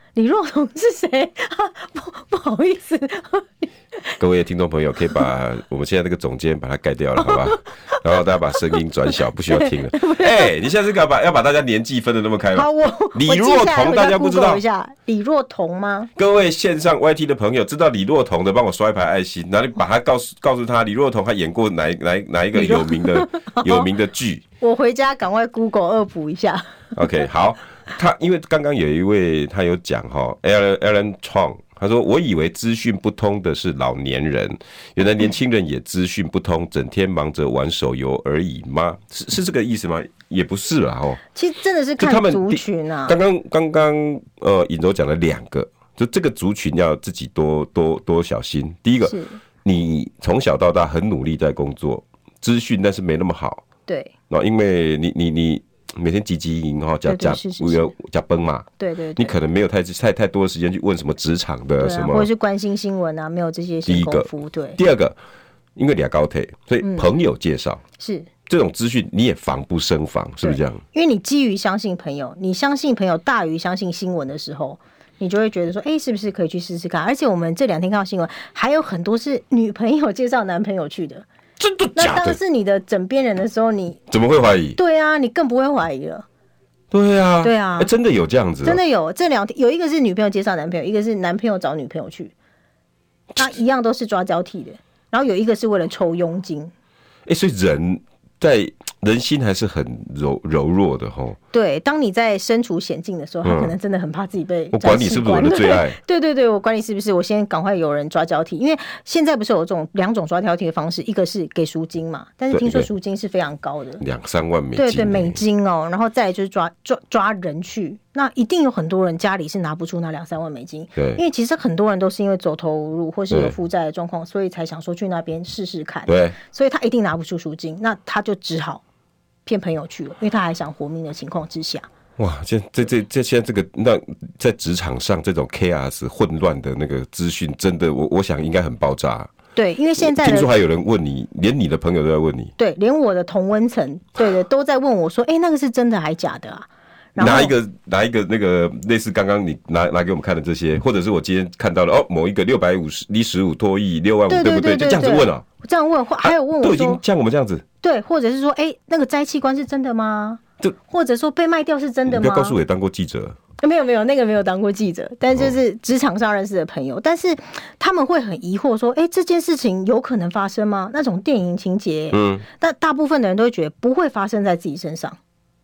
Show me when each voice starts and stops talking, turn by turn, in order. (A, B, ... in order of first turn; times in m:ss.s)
0:00.2-0:04.1 A
0:04.2-0:14.6 B
0:07.2-0:08.0 A
0:09.5-0:10.6 A
0:12.5-0:16.1 A
0:16.2-0:24.4 B
0:22.5-0:23.9 A
0:24.6-0:27.0 A
0:27.0-0:41.2 B
0:41.4-0:43.2 A
0:42.0-0:53.6 B
0:49.0-0:49.4 A
0:53.9-0:54.1 A
0:54.3-1:02.3 B
0:57.1-0:57.9 A
0:58.8-0:59.4 A
1:01.8-1:04.8 A
1:03.9-1:05.2 B
1:05.8-1:07.8 B
1:06.8-1:07.1 A
1:08.0-1:08.3 A
1:08.5-1:10.8 B
1:10.4-1:21.3 A
1:21.6-1:22.4 B
1:22.0-1:24.0 A
1:24.1-1:24.8 B
1:24.8-1:26.3 A
1:26.9-1:28.8 B
1:27.4-1:27.9 A
1:28.6-1:32.3 A
1:33.4-1:36.7 A
1:37.3-1:41.4 B
1:41.5-1:54.0 A
1:43.4-1:43.7 B
1:44.7-1:46.0 B
1:52.5-1:52.9 B
1:54.0-1:55.4 B
1:54.8-2:08.8 A
2:03.3-2:03.6 B
2:06.1-2:06.4 B
2:09.5-2:11.9 A
2:12.2-2:19.3 B
2:19.6-2:20.5 A
2:20.0-2:22.5 B
2:22.6-2:27.6 A
2:27.2-2:35.4 B
2:34.3-2:37.0 A
2:36.2-2:37.6 B
2:37.8-2:42.6 A
2:42.1-2:43.4 B
2:43.6-2:55.2 A
2:52.1-2:52.4 B